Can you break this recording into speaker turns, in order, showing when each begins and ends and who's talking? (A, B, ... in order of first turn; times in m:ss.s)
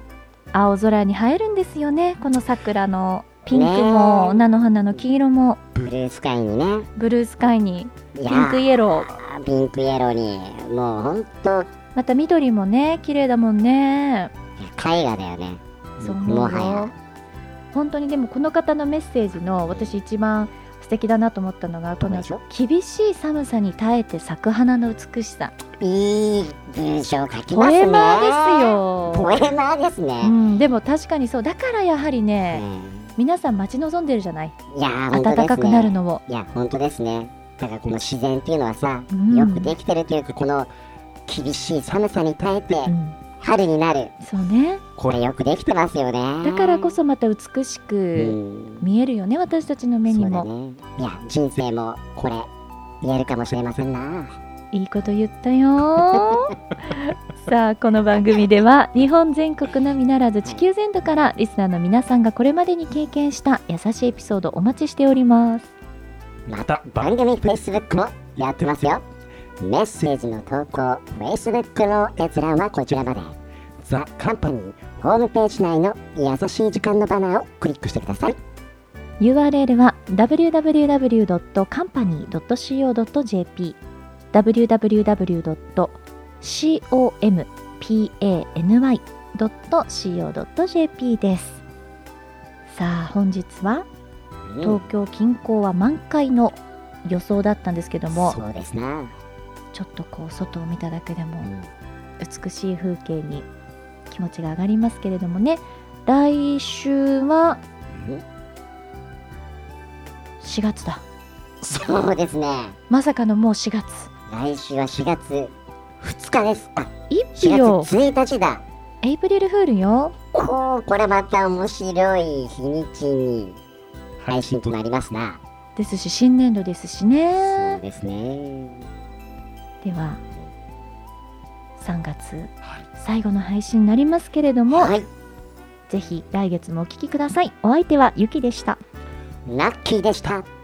0:00.5-0:05.6 A
0:03.5-0:04.4 B
0:05.8-0:06.9 B
0:07.0-0:09.1 A
0:08.2-0:11.7 B
0:12.0-0:14.3 A
0:14.6-0:16.9 B
0:16.0-0:16.9 A
0:17.7-0:25.6 A
0:22.0-0:22.4 B
0:25.8-0:30.4 B
0:27.5-0:29.3 A
0:30.2-0:32.6 A
0:32.5-0:33.2 B
0:33.2-0:34.6 A
0:34.7-0:40.7 B
0:35.1-0:36.2 A
0:39.1-0:39.8 A
0:41.3-0:44.1 B
0:42.9-0:43.2 A
0:44.2-0:44.8 A
0:45.0-0:47.0 B
0:46.4-0:50.5 A
0:48.2-0:48.9 B
0:50.1-0:52.5 B
0:53.0-0:54.3 B
0:54.7-1:05.7 A
1:06.5-1:09.0 B
1:09.6-1:18.4 B
1:19.2-1:23.8 A
1:24.3-1:31.6 A
1:32.7-1:33.9 A
1:34.5-1:34.9 B
1:34.6-1:38.4 A
1:38.1-1:39.1 B
1:39.7-1:41.5 A
1:41.4-1:41.7 B
1:42.2-1:43.5 A
1:44.1-1:47.6 A
1:47.9-1:48.2 B
1:50.4-1:51.0 A
1:51.6-1:52.8 B
1:52.9-1:54.1 A
1:54.3-1:58.6 B
1:57.1-1:57.9 A
1:59.0-2:00.2 A
2:00.3-2:03.6 B
2:04.3-2:05.4 B
2:05.8-2:07.8 A
2:07.4-2:08.9 B
2:09.8-2:10.2 A
2:11.8-2:15.0 A
2:14.7-2:15.1 B
2:15.9-2:18.8 A
2:19.5-2:20.5 B